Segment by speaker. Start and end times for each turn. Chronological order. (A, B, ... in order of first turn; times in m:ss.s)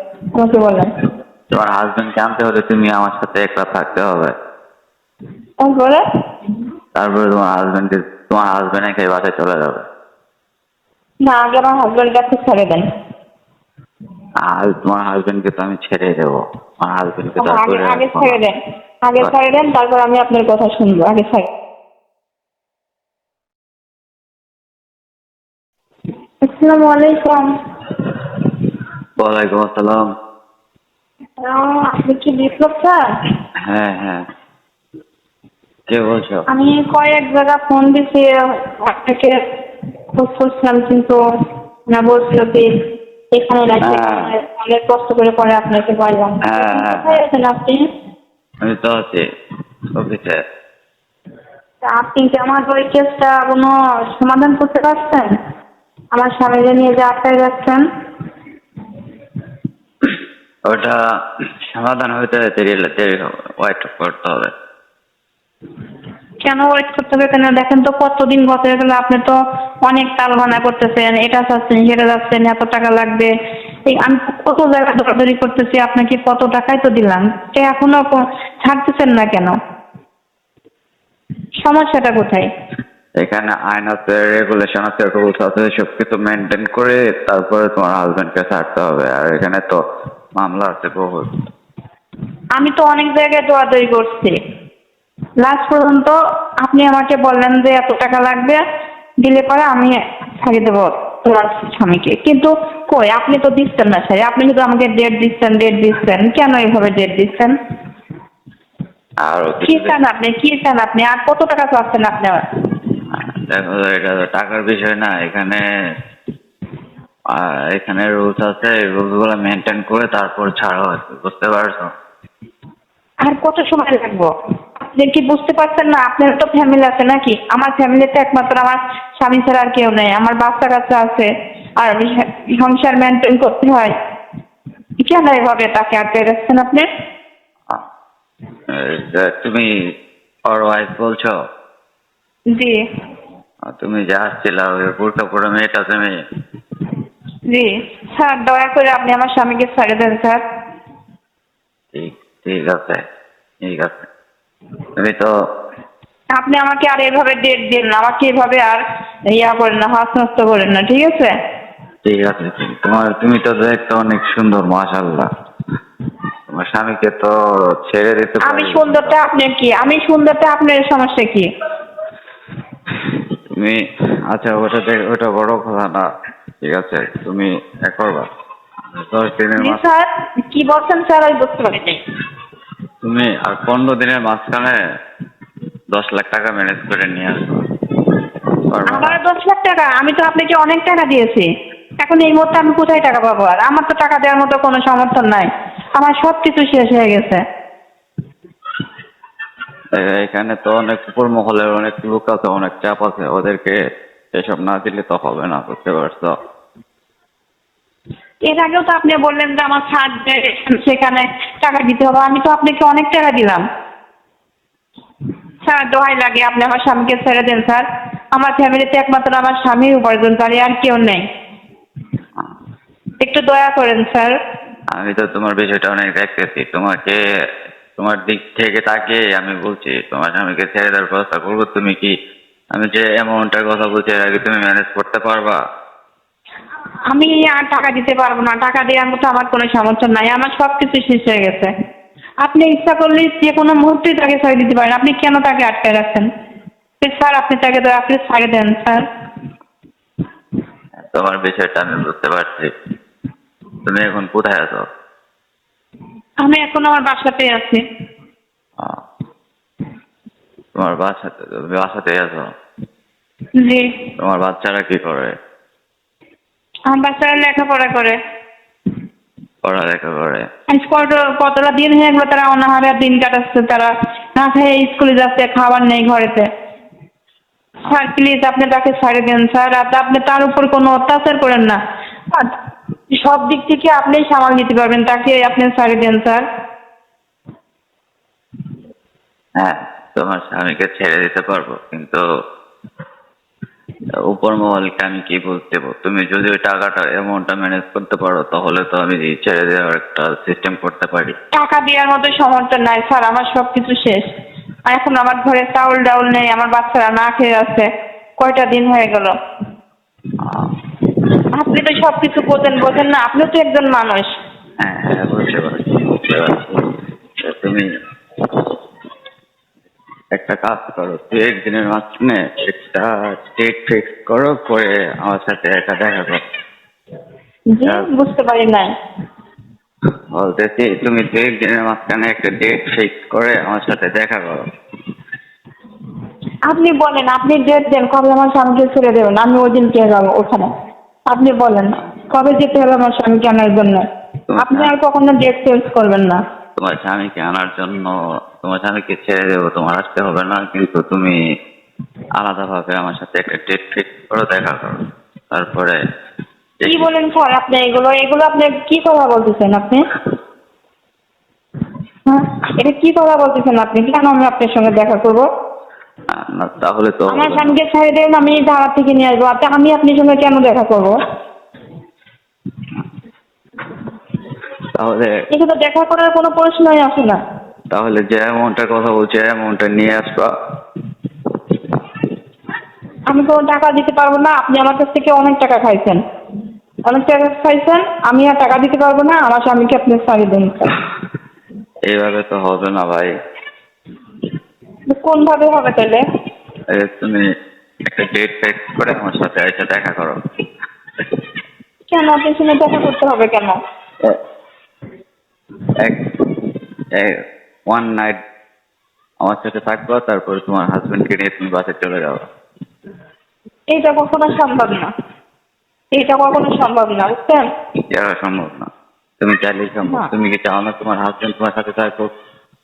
0:00.3-0:00.9 A
0:01.5-0:04.3 B
0:05.6-0:06.0 A
0:07.0-0:09.8 B
0:11.2-0:12.8 A
0:14.4-0:18.4 B
0:17.4-0:21.5 A
0:26.4-0:27.5 A
0:29.2-0:30.1 B
0:31.4-0:33.0 A
0:33.7-0:34.2 B
0:35.9-0:36.4 B
0:36.5-0:39.4 A
0:40.1-0:41.2 A
0:41.9-0:42.7 A
0:43.3-0:47.8 A
0:43.8-0:44.3 B
0:46.4-0:47.2 B
0:48.6-0:49.2 B
0:49.9-0:50.4 B
0:51.8-0:55.3 A
0:56.1-0:57.8 A
1:00.0-1:01.0 B
1:01.7-1:04.5 B
1:06.4-1:13.3 A
1:13.8-1:19.5 A
1:21.6-1:22.5 A
1:23.2-1:29.8 B
1:30.3-1:31.3 B
1:32.6-1:34.3 A
1:35.4-1:38.6 A
1:39.2-1:47.6 A
1:49.2-1:49.9 B
1:49.6-1:52.4 A
1:53.1-1:55.6 B
1:57.3-2:01.9 B
2:03.2-2:13.9 A
2:15.0-2:16.8 A
2:18.7-2:19.7 B
2:20.5-2:21.3 B
2:22.5-2:22.8 A
2:23.7-2:26.1 B
2:27.5-2:30.4 A
2:31.9-2:33.0 B
2:33.6-2:34.1 B
2:35.0-2:35.3 B
2:36.3-2:41.3 A
2:42.0-2:45.3 B
2:46.5-2:47.3 B
2:47.9-2:49.1 B
2:48.4-2:51.5 A
2:54.3-2:56.0 B
2:56.6-2:58.3 B
2:58.9-2:59.8 B
2:59.6-3:02.0 A
3:03.0-3:04.8 B
3:05.9-3:07.6 B
3:08.7-3:09.2 B
3:08.9-3:11.5 A
3:12.0-3:17.4 A
3:20.0-3:23.8 B
3:24.3-3:26.3 B
3:28.4-3:33.6 A
3:35.6-3:41.2 A
3:43.2-3:44.3 A
3:44.9-3:47.2 B
3:48.0-3:52.1 B
3:52.7-3:55.6 B
3:57.1-4:01.7 A
4:02.4-4:06.3 A
4:07.0-4:09.0 A
4:11.1-4:12.7 B
4:13.8-4:14.8 B
4:16.4-4:17.8 A
4:20.8-4:22.4 B
4:23.6-4:23.9 A
4:24.2-4:25.3 B
4:26.9-4:28.2 A
4:29.6-4:30.4 B
4:30.7-4:36.5 A
4:37.9-4:41.8 A
4:43.1-4:46.4 A
4:49.6-4:52.2 B
4:54.3-5:01.4 B
5:01.6-5:04.2 A
5:04.9-5:07.9 A
5:08.4-5:09.3 A
5:10.4-5:10.7 B
5:11.6-5:14.3 A
5:14.8-5:17.9 B
5:20.3-5:26.4 B
5:27.7-5:28.9 A
5:30.4-5:34.6 B
5:36.7-5:40.7 A
5:41.3-5:44.0 A
5:44.5-5:44.9 B
5:44.6-5:46.4 A
5:46.8-5:51.4 B
5:52.4-5:55.0 B
5:55.5-5:56.0 B
5:56.8-5:57.1 B
5:56.9-6:00.0 A
6:02.3-6:05.5 A
6:06.3-6:07.8 B
6:07.3-6:11.1 A
6:14.9-6:15.3 B
6:15.5-6:17.4 A
6:17.9-6:20.5 B
6:23.3-6:26.2 A
6:27.1-6:31.0 A
6:32.1-6:33.3 B
6:35.1-6:36.2 A
6:36.9-6:37.4 B
6:38.1-6:40.4 B
6:42.1-6:43.8 A
6:47.9-6:48.4 B
6:49.4-6:52.5 B
6:53.9-6:55.1 A
6:56.1-6:57.6 A
6:58.1-6:58.9 B
6:59.4-7:02.3 B